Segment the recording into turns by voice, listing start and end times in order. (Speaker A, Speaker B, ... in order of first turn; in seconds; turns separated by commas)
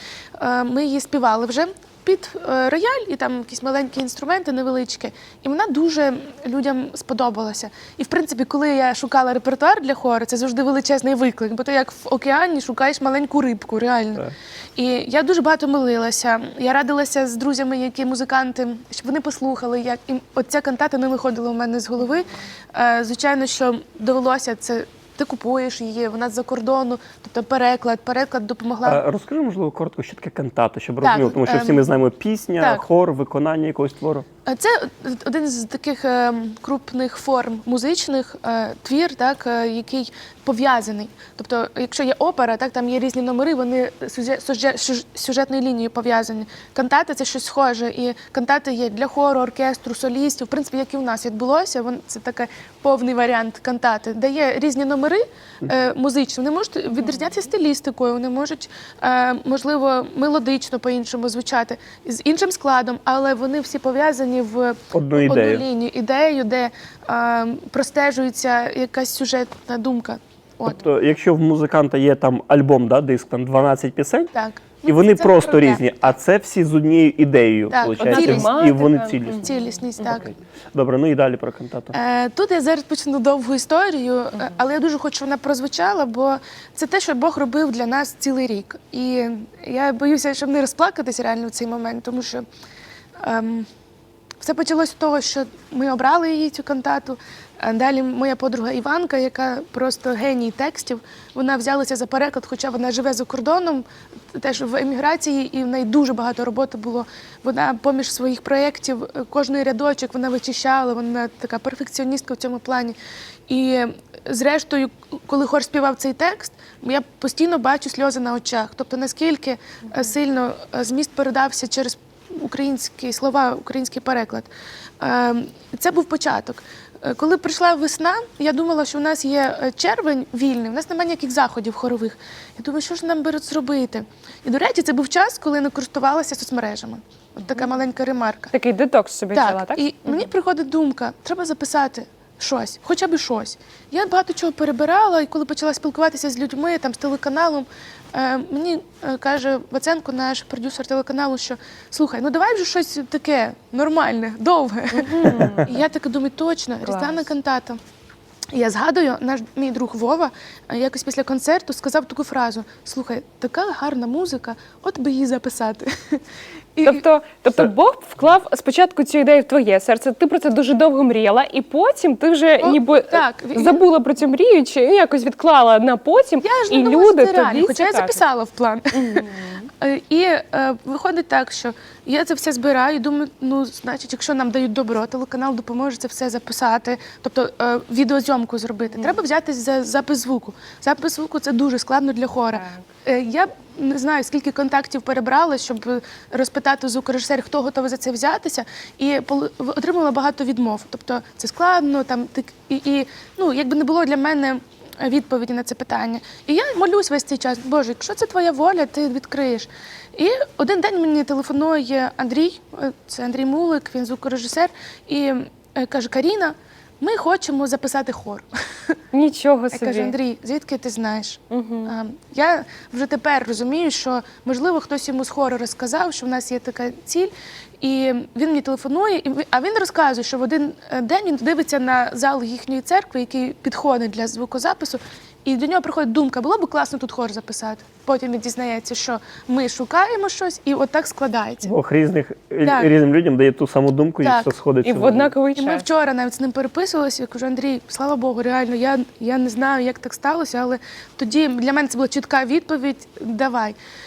Speaker A: 0.4-29.0, Speaker B: 28.8-34.3, Speaker A: 31.0-31.9, Speaker A: 32.6-32.9, Speaker A: 34.5-70.8, Speaker B: 64.9-65.7, Speaker B: 70.7-74.3, Speaker A: 74.3-75.8, Speaker B: 74.8-79.5, Speaker A: 77.7-80.3, Speaker C: 78.0-79.5, Speaker B: 80.0-81.9, Speaker A: 81.9-92.5, Speaker A: 93.2-93.7, Speaker A: 94.4-113.0, Speaker A: 113.5-124.5, Speaker A: 125.0-138.5, Speaker C: 138.5-140.2, Speaker A: 139.3-157.8, Speaker C: 154.9-155.7, Speaker C: 156.8-157.3, Speaker A: 158.5-166.2, Speaker A: 166.8-167.0, Speaker C: 166.8-178.2, Speaker A: 172.6-173.8, Speaker A: 176.4-179.3, Speaker C: 178.9-179.7, Speaker A: 179.8-218.4, Speaker C: 192.5-192.8, Speaker C: 219.1-220.1, Speaker A: 219.7-241.7, Speaker C: 221.5-221.9, Speaker B: 241.6-245.3, Speaker A: 242.7-242.9, Speaker A: 244.2-244.5, Speaker C: 244.8-245.8, Speaker A: 245.5-253.8